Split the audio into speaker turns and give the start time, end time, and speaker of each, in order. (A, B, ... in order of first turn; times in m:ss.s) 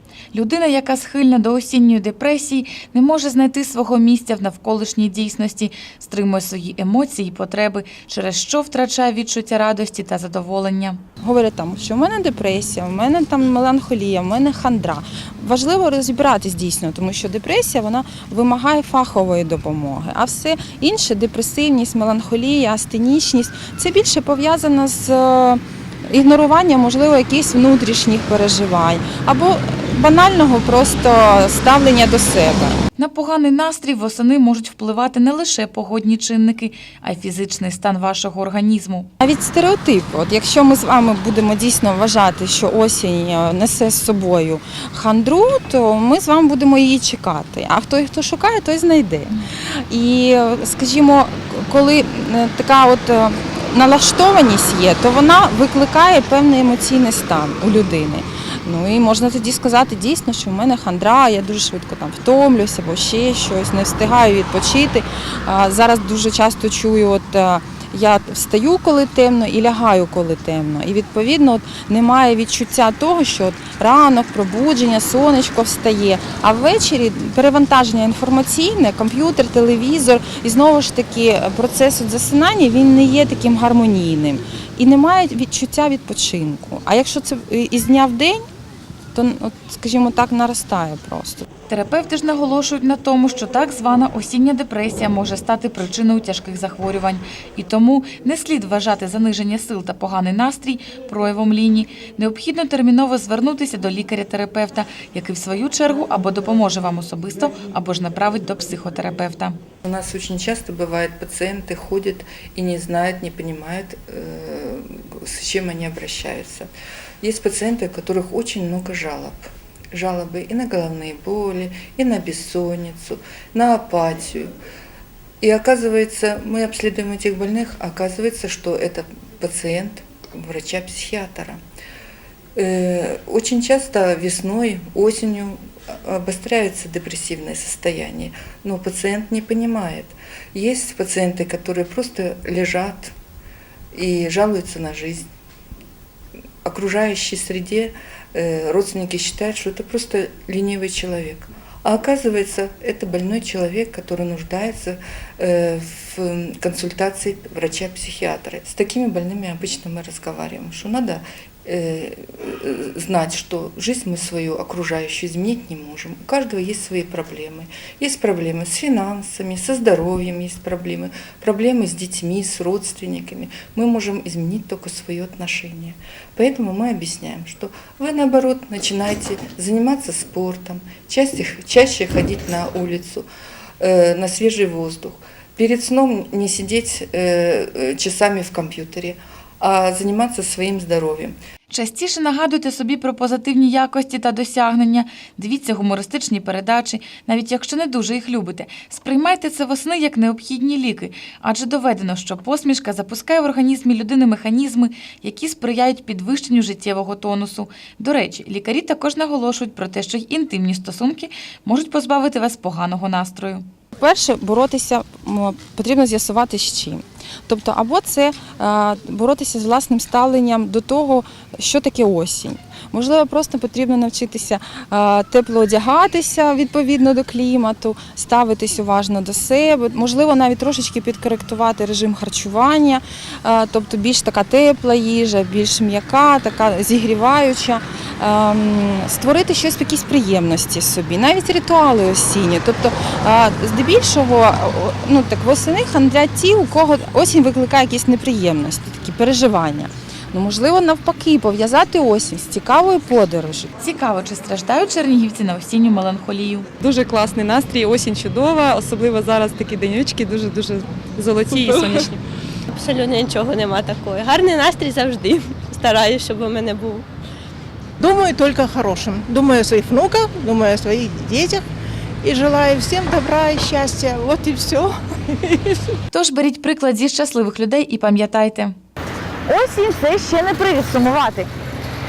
0:00.3-0:11.0 A
0:11.2-0:32.8 B
0:33.0-0:39.1 A
0:39.2-1:28.4 B
1:29.1-1:31.4 B
1:31.7-1:49.6 A
1:49.8-1:56.7 C
1:57.2-2:04.5 C
2:05.4-2:11.6 C
2:12.6-2:23.1 C
2:23.9-2:25.2 C
2:26.6-3:03.3 C
3:03.8-3:11.4 C
3:11.7-3:33.6 A
3:34.0-4:13.7 B
4:13.8-4:16.7 A
4:16.8-4:22.2 D
4:21.4-4:22.1 E
4:22.7-4:27.0 E
4:28.0-4:31.6 F
4:32.2-4:36.0 F
4:36.1-4:38.7 A
4:39.5-4:41.5 G